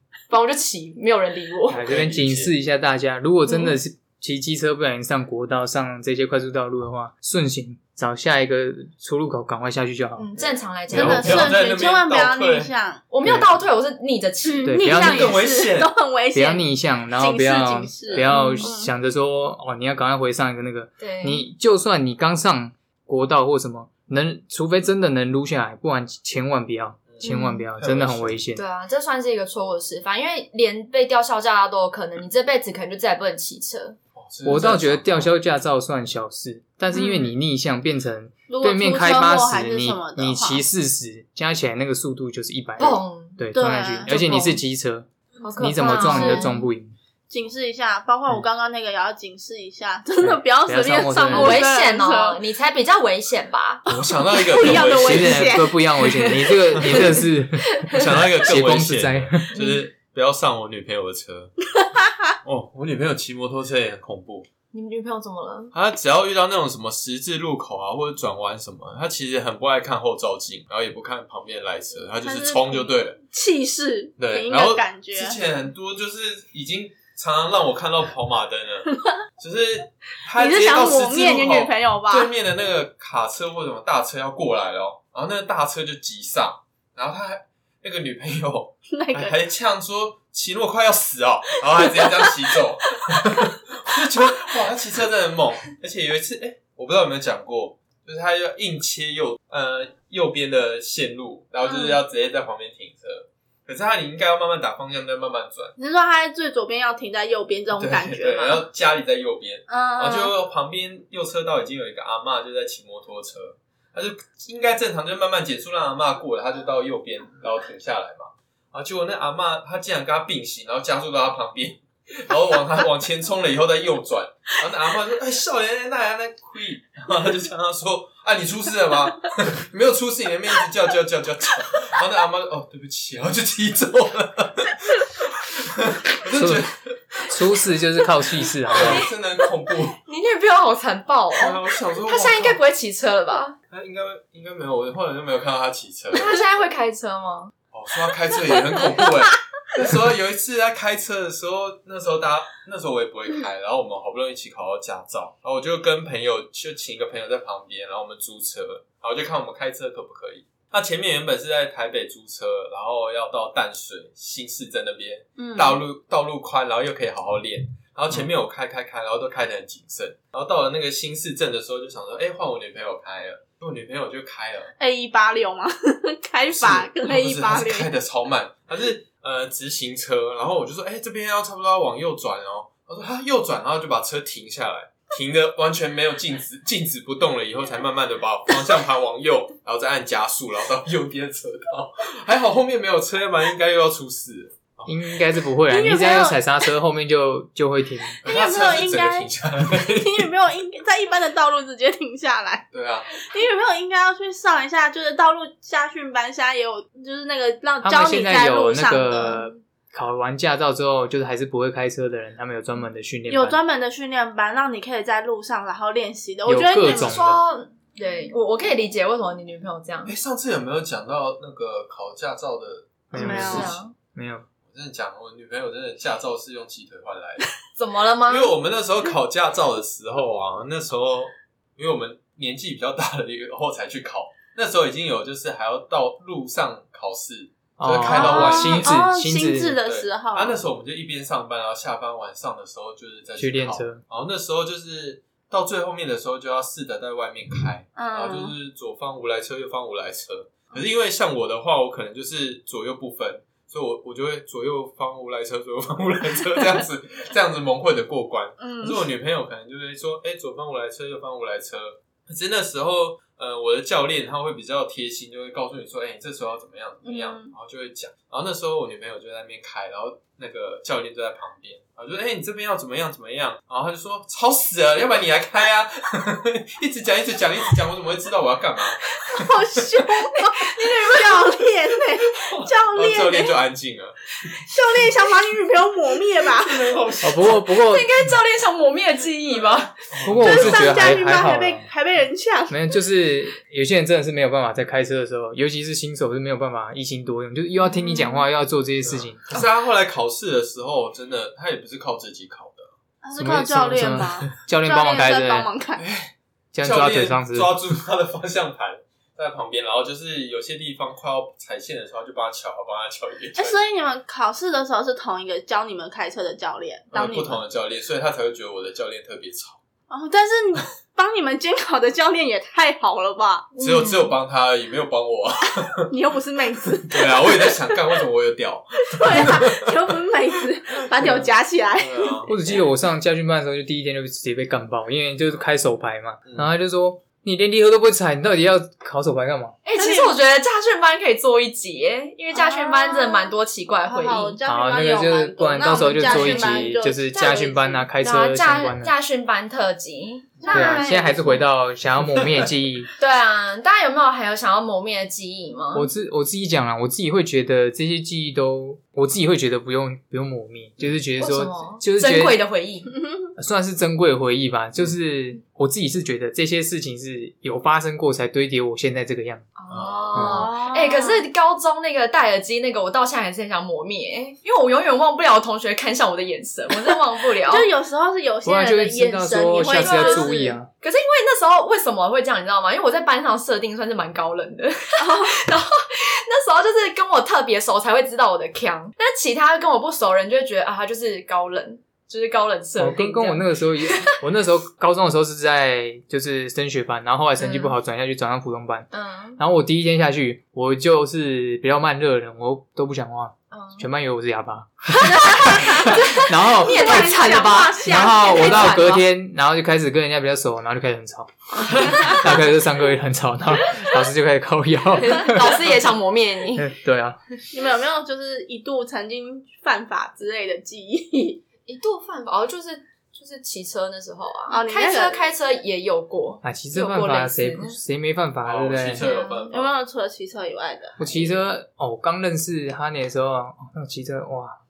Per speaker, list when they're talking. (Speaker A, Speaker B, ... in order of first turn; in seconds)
Speaker A: 0.3-1.8, 3.5-3.7, 10.2-11.6, 13.1-15.1, 18.3-18.7, 21.0-21.4, 27.2-27.7, 28.5-34.0, 36.9-37.3, 42.8-43.4, 44.0-44.6, 45.4-46.7, 51.3-53.9, 56.0-58.0, 64.7-65.7, 138.7-139.1, 139.9-143.6, 146.1-147.5, 216.8-220.1, 223.1-223.9, 227.8-228.5, 280.3-281.4, 287.8-289.9, 297.8-298.4, 323.7-324.3, 339.8-344.6, 345.9-351.6, 353.2-356.1, 361.4-363.1, 369.8-377.9, 379.9-394.4, 397.6-397.9, 399.1-399.6, 403.7-404.1, 405.3-409.2, 411.8-412.4, 415.2-416.9, 421.9-428.0, 429.1-429.8
Speaker B: 1.7-10.2, 11.0-11.4, 13.2-13.6, 14.7-15.4, 16.3-28.6, 34.4-46.9, 50.2-51.6, 54.7-59.6, 136.3-136.6, 137.3-139.1, 194.8-198.2, 207.8-213.6, 216.4-217.4, 223.1-224.4, 237.8-239.8, 243.4-244.0, 287.2-288.1, 290.2-291.9, 292.7-299.5, 303.4-305.7, 306.7-307.7, 332.5-339.8, 344.6-349.1, 350.7-353.1, 355.9-362.6, 363.6-369.6, 370.3-370.7, 378.6-380.9, 393.0-405.1, 405.8-415.9, 416.8-417.4, 426.6-429.2, 431.2-434.8
Speaker C: 1.8-2.5, 10.4-12.7, 14.9-15.9, 27.1-28.4, 34.1-35.3, 53.9-55.6, 56.8-57.0, 57.9-61.6, 62.4-64.5, 65.7-73.2, 74.2-105.7, 107.8-137.6, 138.7-140.0, 141.3-142.6, 143.7-146.5, 147.7-174.7, 176.5-195.0, 198.2-200.3, 202.7-203.1, 220.0-223.8, 224.6-227.6, 228.3-238.9, 239.8-280.0, 282.4-284.5, 286.6-287.6, 290.1-291.1, 299.0-302.9, 306.0-313.8, 317.1-319.8, 323.8-326.1, 327.1-329.9, 332.0-332.8, 336.4-336.7, 369.9-370.5, 428.6-429.9
Speaker D: 10.9-13.0, 14.4-18.9, 38.5-40.6, 43.5-44.1, 45.8-46.5, 47.3-52.4, 53.9-56.4, 61.8-62.1, 72.2-75.4, 80.4-82.3, 88.9-89.4, 91.7-92.5, 105.8-108.6, 109.7-110.3, 165.4-165.8, 174.8-177.9, 195.7-196.4, 198.2-209.5, 213.3-217.2, 223.2-223.7, 238.1-240.6, 247.9-248.5, 258.6-259.1, 267.0-267.5, 279.3-283.6, 284.6-286.9, 290.3-292.8, 303.2-306.0, 313.6-317.6, 320.1-323.7, 326.1-327.9, 329.1-332.5, 339.9-340.4, 342.5-343.5, 344.0-348.1, 350.6-351.1, 363.1-363.5, 370.4-371.4, 377.1-380.8, 385.2-385.6, 405.2-406.2, 406.8-409.0, 417.7-421.6, 424.7-425.4, 429.7-431.5